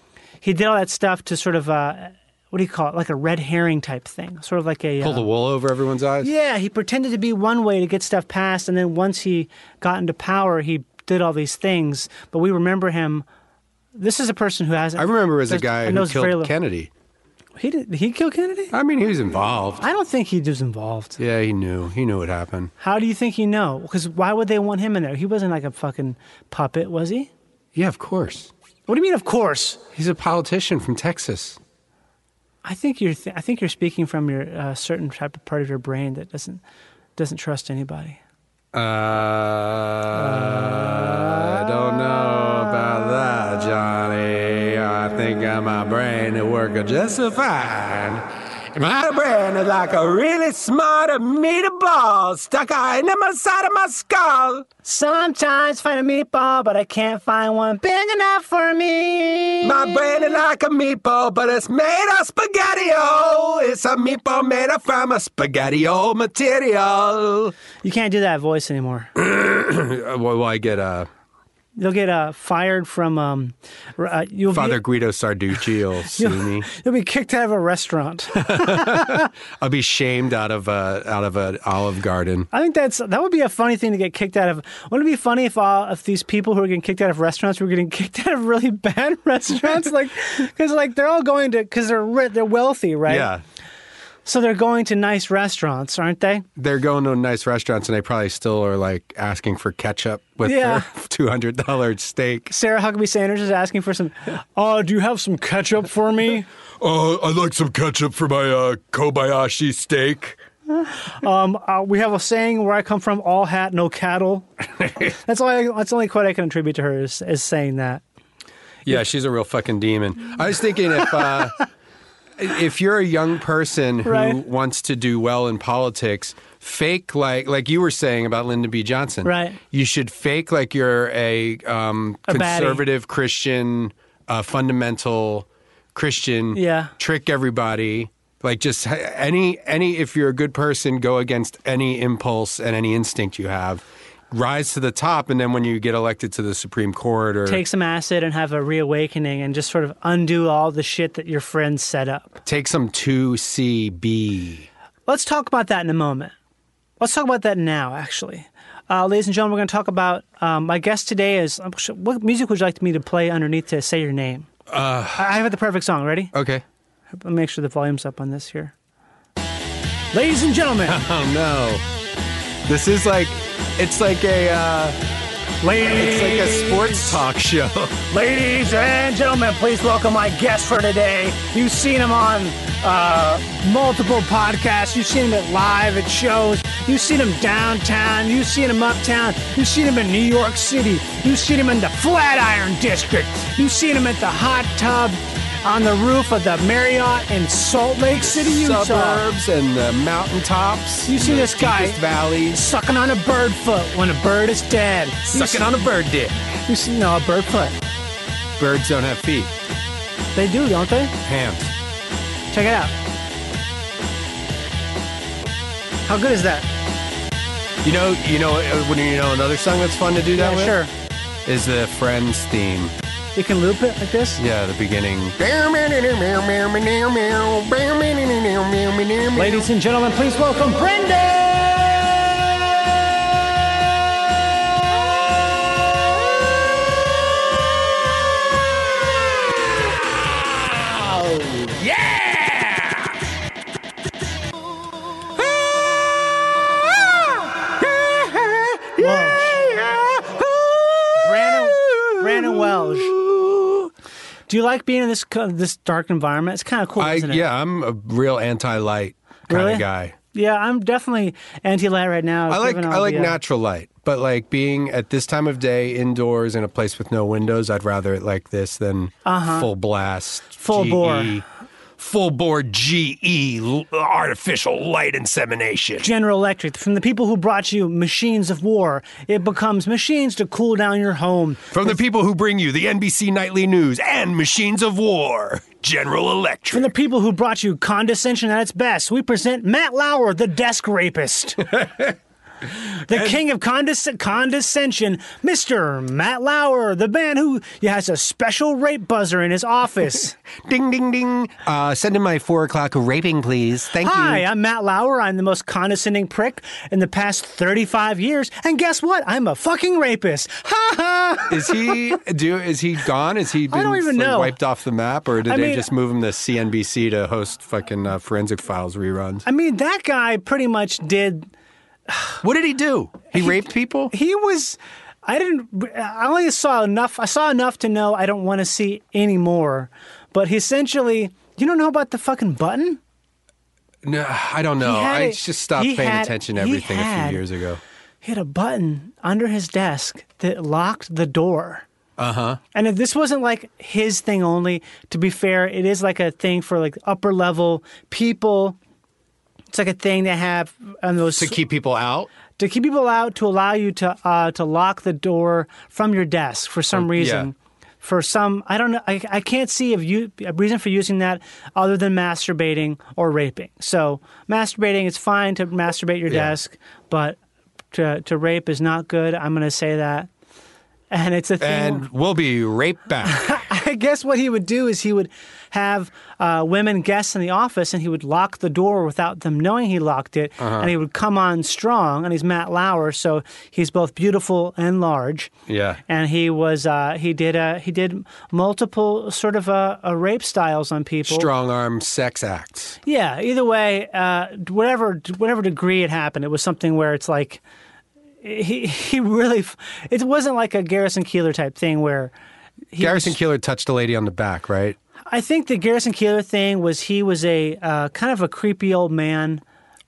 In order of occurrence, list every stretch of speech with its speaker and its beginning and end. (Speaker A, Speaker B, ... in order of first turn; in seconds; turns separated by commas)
Speaker A: 0.4-5.3, Speaker B: 5.0-6.3, Speaker A: 6.2-13.2, Speaker A: 14.0-16.5, Speaker B: 15.0-16.9, Speaker A: 17.6-18.7, Speaker B: 18.7-19.8, Speaker A: 19.8-21.2, Speaker B: 21.2-22.7, Speaker A: 22.8-27.3, Speaker B: 27.8-28.5, Speaker A: 28.9-29.8, Speaker B: 29.9-31.6, Speaker A: 32.6-36.6, Speaker A: 37.2-38.2, Speaker B: 38.7-54.7, Speaker A: 40.2-41.2, Speaker A: 54.8-59.8, Speaker B: 59.6-67.5, Speaker A: 67.8-69.1, Speaker B: 69.2-71.1, Speaker A: 71.8-74.8, Speaker B: 74.5-76.7, Speaker A: 76.1-79.3, Speaker B: 78.4-82.5, Speaker A: 82.5-93.3, Speaker B: 93.1-93.4, Speaker A: 94.3-96.5, Speaker B: 96.6-102.5, Speaker A: 100.4-100.9, Speaker A: 102.5-106.5, Speaker B: 106.8-110.4, Speaker A: 110.7-114.5, Speaker A: 115.0-118.0, Speaker B: 118.9-121.6, Speaker B: 122.4-147.6, Speaker A: 124.0-124.4, Speaker A: 129.2-129.6, Speaker A: 132.3-132.8, Speaker A: 136.5-136.9, Speaker A: 147.5-152.4, Speaker B: 152.4-154.7, Speaker A: 155.1-156.3, Speaker A: 157.0-164.5, Speaker B: 164.7-165.4, Speaker A: 165.2-166.3, Speaker B: 166.3-166.6, Speaker A: 167.2-168.7, Speaker A: 170.1-171.0, Speaker B: 170.9-171.8, Speaker B: 172.7-175.0, Speaker A: 175.6-177.2, Speaker B: 175.9-178.1, Speaker A: 178.1-199.2, Speaker B: 198.2-202.6, Speaker A: 201.1-205.9, Speaker B: 205.3-206.4, Speaker A: 206.7-207.8, Speaker B: 208.6-209.5, Speaker A: 210.3-211.2, Speaker B: 211.2-211.7, Speaker A: 212.5-212.9, Speaker A: 216.1-216.7, Speaker B: 217.8-220.8, Speaker A: 220.4-220.9, Speaker B: 221.5-222.9, Speaker A: 223.3-224.4, Speaker B: 224.4-229.7, Speaker A: 229.3-231.9, Speaker B: 232.3-232.9, Speaker B: 234.8-243.2, Speaker B: 245.4-253.9, Speaker A: 249.0-249.6, Speaker A: 251.2-253.2, Speaker A: 254.5-257.5, Speaker B: 257.0-260.2, Speaker A: 259.5-263.4, Speaker B: 262.5-271.4, Speaker A: 269.2-269.7, Speaker A: 270.6-271.4, Speaker B: 272.0-276.1, Speaker A: 276.0-282.0, Speaker B: 281.7-286.9, Speaker A: 286.7-291.8, Speaker B: 291.8-292.1, Speaker A: 293.1-300.4, Speaker B: 293.1-293.4, Speaker B: 300.6-304.4, Speaker A: 304.0-312.0, Speaker B: 311.5-319.5, Speaker A: 313.7-314.6, Speaker A: 315.5-315.9, Speaker A: 319.5-321.5, Speaker A: 322.1-322.4, Speaker B: 322.4-324.1, Speaker A: 323.3-333.0, Speaker B: 334.0-337.8, Speaker A: 334.8-337.4, Speaker A: 338.2-341.9, Speaker B: 342.2-342.6, Speaker A: 342.7-348.8, Speaker A: 349.7-351.6, Speaker B: 351.2-352.3, Speaker A: 352.6-367.4, Speaker B: 356.9-357.5, Speaker B: 366.3-366.5, Speaker A: 367.9-370.3, Speaker A: 371.1-372.1, Speaker B: 371.6-373.5, Speaker A: 373.2-385.5, Speaker B: 380.6-380.9, Speaker B: 385.7-386.0, Speaker A: 386.1-391.5, Speaker B: 391.3-393.0, Speaker A: 393.1-397.6, Speaker A: 398.4-402.3, Speaker A: 402.9-403.4, Speaker B: 403.0-405.0, Speaker A: 405.3-409.6